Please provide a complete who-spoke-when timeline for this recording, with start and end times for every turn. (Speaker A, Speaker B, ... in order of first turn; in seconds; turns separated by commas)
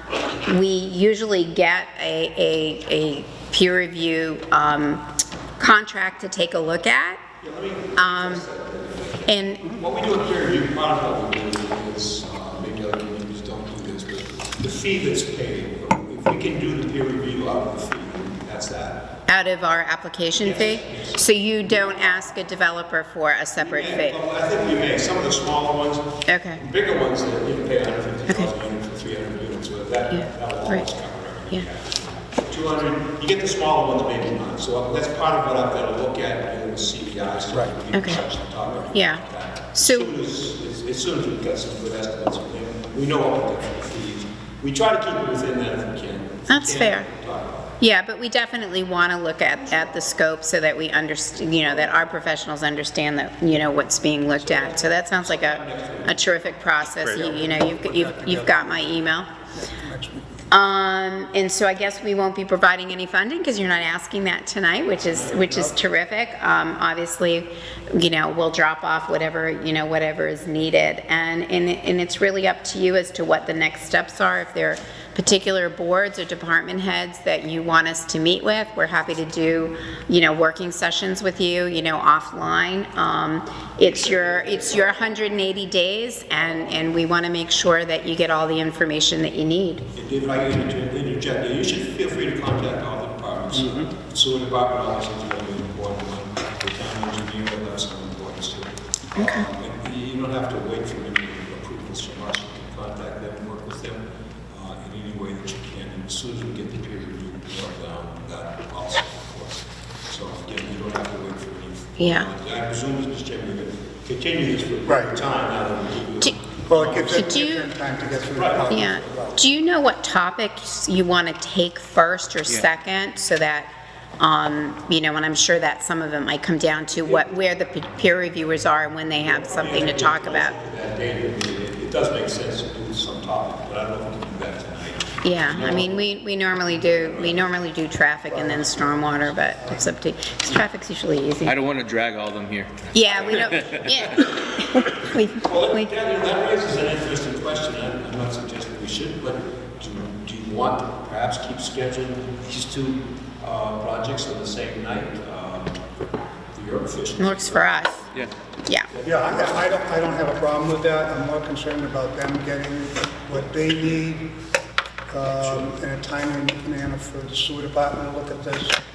Speaker A: 0.5-5.1, Speaker A: 5.6-7.2, Speaker B: 7.4-19.1, Speaker A: 8.0-8.4, Speaker A: 9.3-9.7, Speaker A: 19.3-24.2, Speaker B: 20.4-21.2, Speaker B: 23.6-47.8, Speaker A: 26.3-26.6, Speaker A: 30.2-30.8, Speaker A: 37.9-38.2, Speaker A: 38.9-40.1, Speaker A: 46.5-47.1, Speaker A: 47.8-59.3, Speaker B: 54.4-56.6, Speaker C: 57.4-58.8, Speaker C: 59.7-60.3, Speaker A: 60.5-89.9, Speaker C: 65.4-65.7, Speaker B: 84.2-84.6, Speaker B: 89.9-117.4, Speaker C: 93.5-93.9, Speaker A: 99.2-99.5, Speaker A: 112.0-112.3, Speaker C: 114.8-115.2, Speaker C: 116.7-119.4, Speaker A: 117.0-117.7, Speaker B: 118.3-119.0, Speaker A: 118.7-130.6, Speaker B: 129.2-136.0, Speaker A: 135.2-141.6, Speaker B: 137.1-137.5, Speaker C: 138.3-139.9, Speaker D: 141.4-144.0, Speaker A: 142.9-145.9, Speaker B: 145.4-155.8, Speaker B: 156.6-158.3, Speaker A: 157.2-158.0, Speaker B: 158.9-159.7, Speaker C: 159.0-164.3, Speaker C: 165.1-168.8, Speaker B: 165.4-165.7